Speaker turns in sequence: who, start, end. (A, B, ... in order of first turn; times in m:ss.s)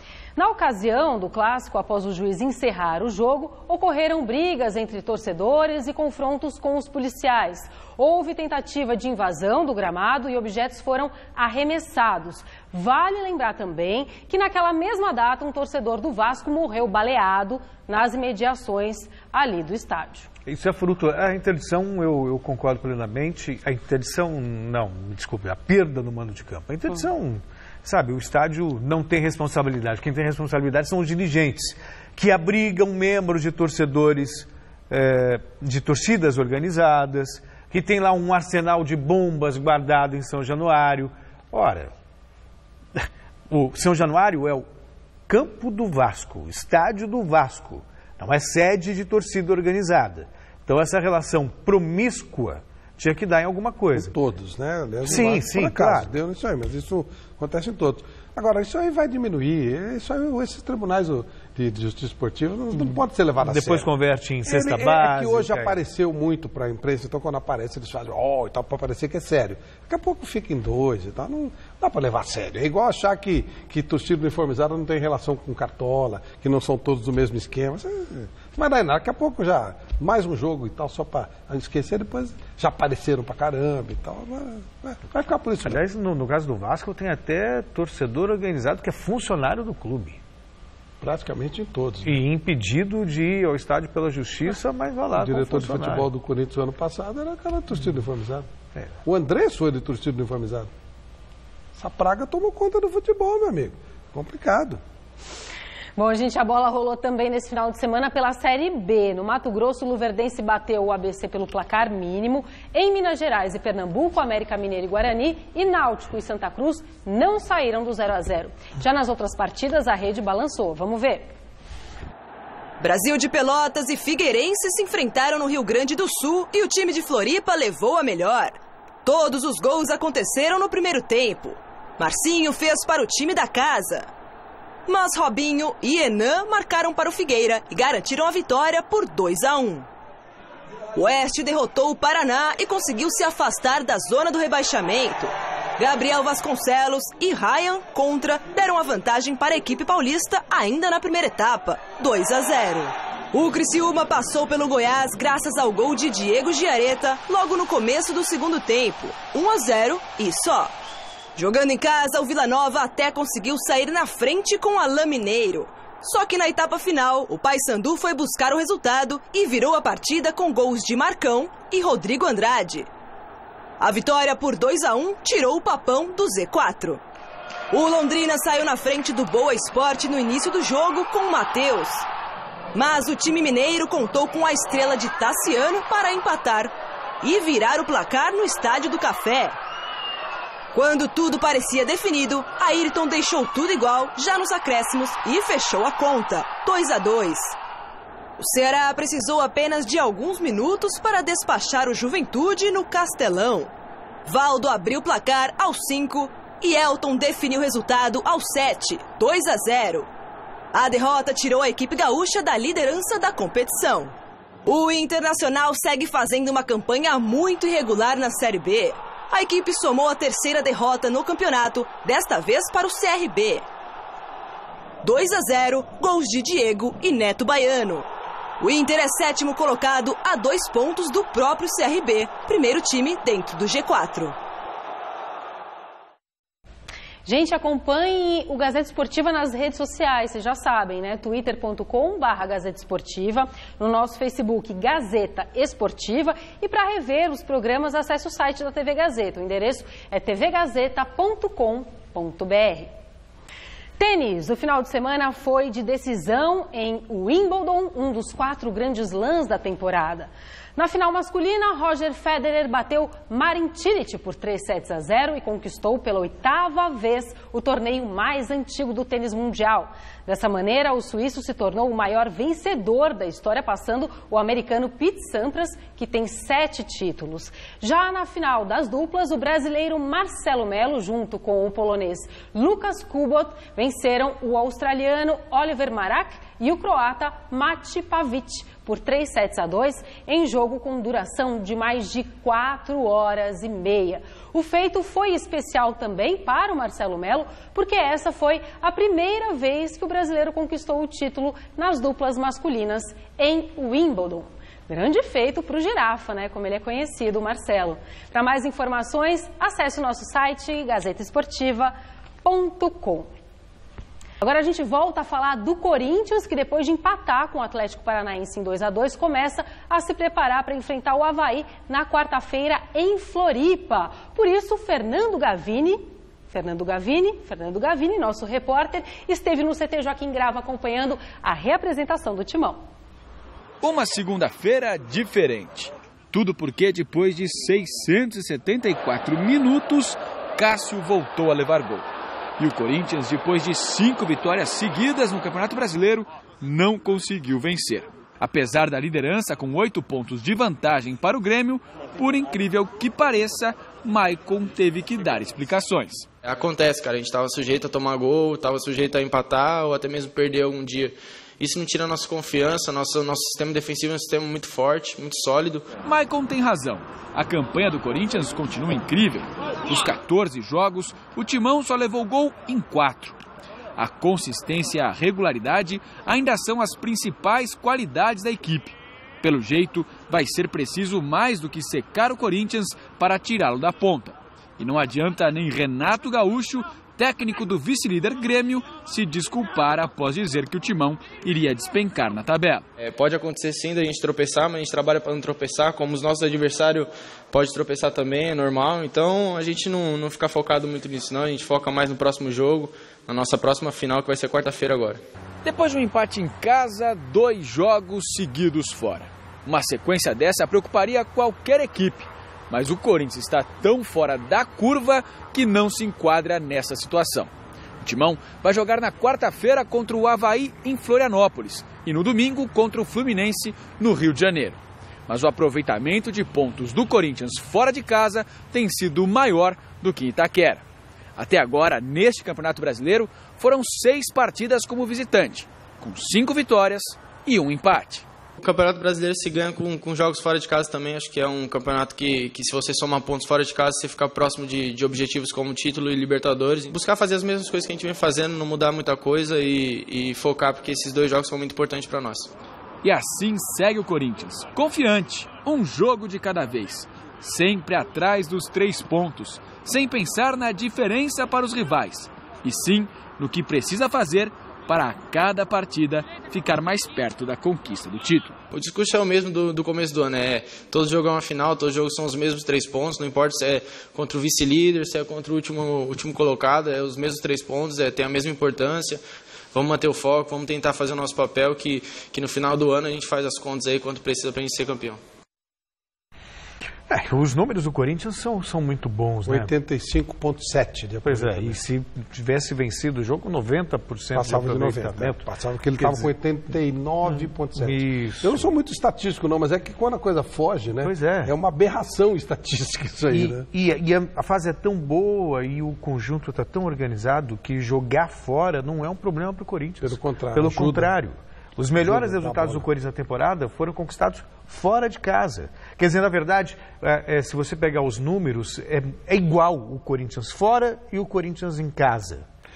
0:00.4-0:20.3 A
0:20.5-0:41.9 B
0:43.0-0:44.7 B
0:45.3-0:54.1 B
0:54.0-1:03.9 C
0:55.0-0:56.1 B
1:02.8-1:05.8 B
1:04.4-1:25.8 C
1:25.6-1:30.2 B
1:31.0-1:32.2 C
1:32.0-1:36.1 B
1:35.1-1:38.5 C
1:39.0-1:40.7 C
1:41.8-1:44.8 C
1:46.0-2:01.3 A
2:02.8-2:14.1 D
2:14.9-2:19.9 D
2:21.0-2:40.7 D
2:41.4-2:52.9 D
2:53.8-2:57.0 D
2:57.7-3:02.1 D
3:02.7-3:09.6 D
3:10.7-3:17.6 D
3:18.4-3:23.7 D
3:24.3-3:30.1 D
3:30.7-3:34.2 D
3:34.7-3:43.6 D
3:45.0-3:48.1 D
3:48.6-3:54.4 D
3:57.3-4:12.9 A
4:14.0-5:13.3 A
5:14.4-5:32.8 A
5:33.8-5:42.1 E
5:42.6-5:56.3 E
5:56.4-6:05.9 F
6:06.0-6:13.4 E
6:14.0-6:32.9 E
6:33.0-6:45.2 F
6:45.6-6:57.5 E
6:58.0-7:10.8 E
7:11.4-7:18.3 E
7:18.6-7:32.5 F
7:33.0-7:48.6 E
7:48.7-7:59.2 F
7:59.7-8:05.2 F
8:07.1-8:09.7 B
8:09.5-8:11.8 C
8:11.2-8:15.4 B
8:14.3-8:23.7 C
8:16.0-8:16.3 B
8:17.3-8:18.7 B
8:21.0-8:21.5 B
8:23.3-8:42.4 B
8:30.0-8:31.2 C
8:32.0-8:32.9 C